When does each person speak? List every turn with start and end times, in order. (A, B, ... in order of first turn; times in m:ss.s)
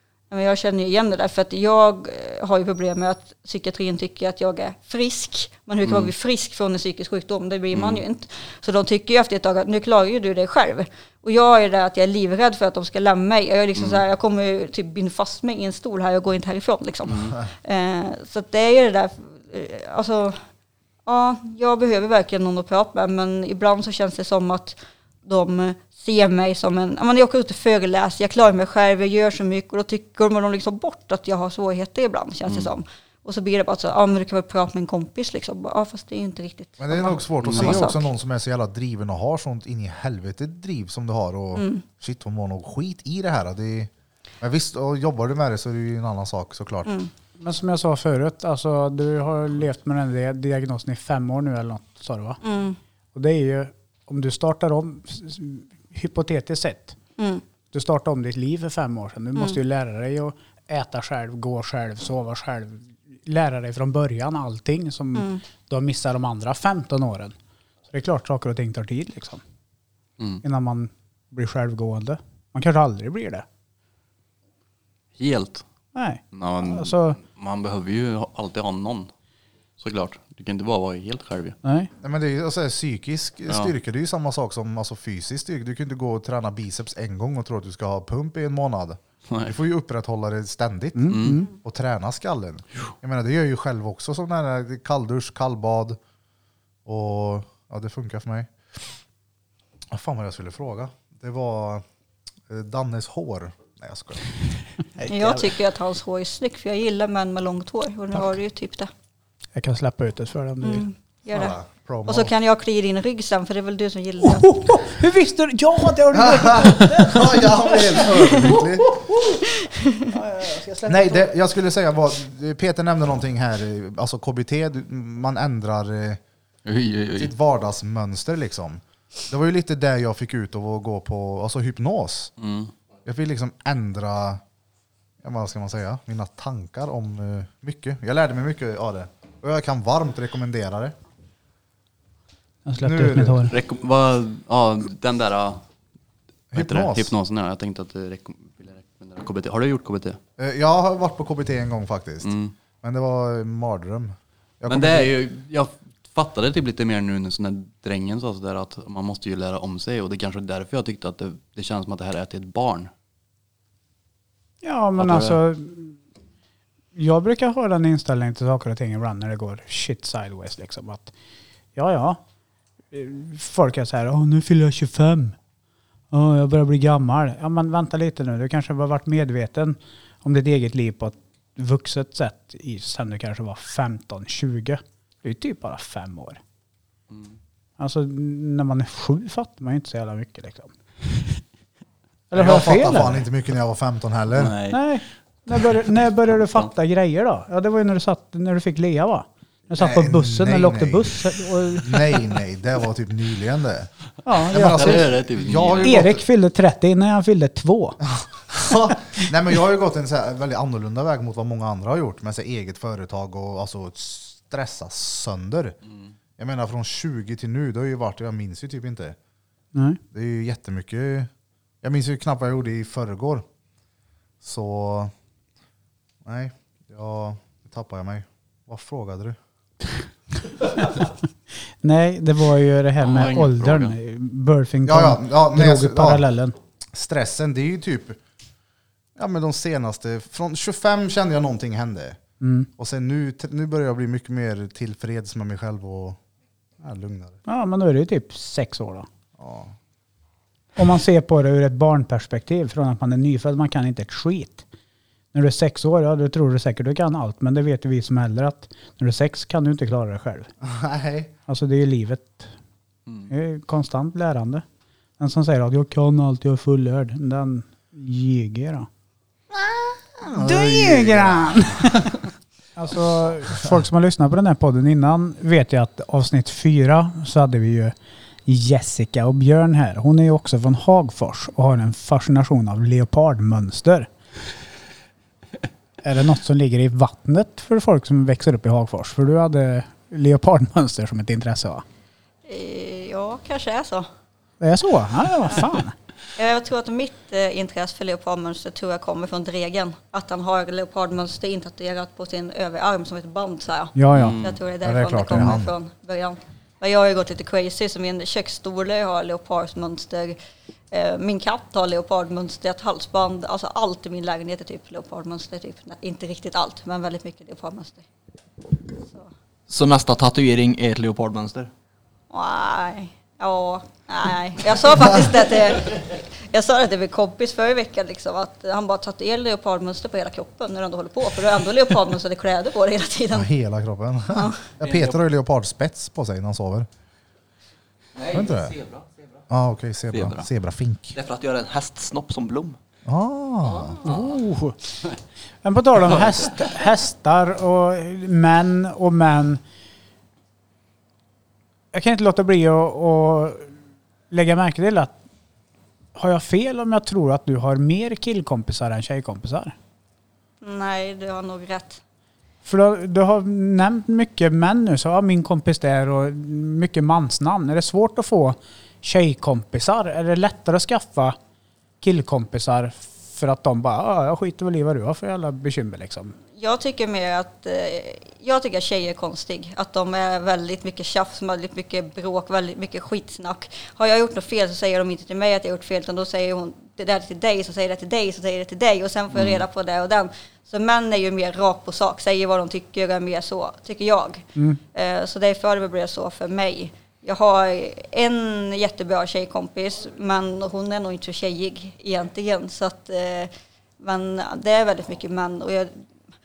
0:00.3-0:20.4 A
0:05.8-0:06.1 B
0:07.7-0:08.0 B
0:13.8-0:14.0 B
0:17.1-0:17.3 B
0:21.0-0:38.0 A
0:36.8-0:43.9 C
0:37.4-0:37.8 B
0:41.5-0:41.8 A
0:44.4-0:46.9 C
0:46.8-0:47.1 A
0:47.4-0:52.4 D
0:52.4-0:52.8 A
0:53.1-0:57.0 D
0:57.2-0:57.4 A
0:57.7-1:07.3 D
1:05.1-1:05.4 A
1:07.9-1:09.4 D
1:10.4-1:13.4 D
1:15.2-1:15.6 B
1:15.9-1:17.2 D
1:16.3-1:19.1 B
1:19.8-1:21.6 B
1:21.6-1:21.9 D
1:22.0-1:36.0 C
1:29.3-1:29.5 B
1:31.0-1:31.5 D
1:31.1-1:31.4 B
1:36.8-1:38.9 C
1:39.9-1:41.8 C
1:42.5-1:44.3 C
1:45.0-1:45.4 D
1:45.1-1:48.9 A
1:49.6-1:50.8 D
1:50.6-1:54.8 A
1:51.3-1:52.3 C
1:54.2-1:59.4 D
1:56.1-1:59.0 C
1:59.6-2:00.1 A
2:00.1-2:01.2 D
2:00.9-2:06.2 C
2:06.6-2:07.3 B
2:07.2-2:12.3 C
2:12.4-2:12.7 B
2:13.0-2:14.4 C
2:15.2-2:21.0 C
2:22.6-2:23.5 D
2:22.8-2:23.5 C
2:23.5-2:25.6 B
2:26.5-2:27.1 C
2:26.5-2:30.2 B
2:30.4-2:32.3 C
2:32.2-2:32.5 B
2:32.8-2:35.1 C
2:34.7-2:42.9 B
2:44.6-2:46.0 D
2:45.0-2:45.4 B
2:46.9-2:51.1 D
2:51.7-2:52.2 D
2:52.9-2:55.4 D
2:56.1-3:06.4 D
3:07.8-3:10.7 D
3:12.3-3:13.2 D
3:12.3-3:14.6 C
3:14.4-3:14.9 B
3:14.7-3:22.2 D
3:16.4-3:16.7 B
3:19.8-3:23.9 C
3:24.2-3:25.1 D
3:24.5-3:26.2 C
3:24.7-3:26.1 B
3:25.8-3:28.0 D
3:28.0-3:35.8 C
3:36.4-3:39.2 C
3:39.7-3:40.0 D
3:40.1-3:41.3 C
3:41.8-3:43.4 C
3:44.4-3:45.1 C
3:46.2-3:49.4 C
3:51.8-3:56.6 D
3:53.0-3:53.9 B
3:54.8-3:56.2 C
3:56.9-3:58.2 C
3:59.2-4:02.2 C
4:02.4-4:02.7 D
4:02.8-4:06.2 C
4:06.8-4:07.4 C
4:07.4-4:09.1 D
4:09.4-4:09.7 C
4:10.8-4:14.6 D
4:15.3-4:20.5 D
4:20.6-4:21.3 C
4:21.5-4:22.5 D
4:23.3-4:24.6 D
4:25.2-4:28.9 D
4:29.5-4:32.0 C
4:30.2-4:32.2 D
4:32.8-4:37.9 D
4:38.4-4:44.1 D
4:46.0-4:51.8 D
4:52.4-4:54.1 A
4:54.6-4:55.9 D
4:56.4-5:10.4 A
5:04.0-5:04.4 D
5:04.1-5:04.6 B
5:04.8-5:05.7 C
5:10.9-5:18.0 A
5:19.0-5:19.3 A
5:19.7-5:21.7 E
5:22.3-5:33.5 A
5:33.3-5:36.9 C
5:34.3-5:34.7 A
5:34.9-5:35.1 E
5:38.2-5:39.2 E
5:38.3-5:38.8 C
5:39.5-5:41.2 C
5:41.1-5:42.8 E
5:43.0-5:44.0 C
5:43.8-5:44.2 E
5:44.0-5:44.8 D
5:45.6-5:49.6 D
5:51.9-5:53.7 D
5:54.3-5:55.1 D
5:56.1-5:59.8 D
6:00.6-6:02.0 A
6:02.6-6:11.4 D
6:12.0-6:16.3 D
6:16.6-6:45.9 A
6:29.3-6:29.6 B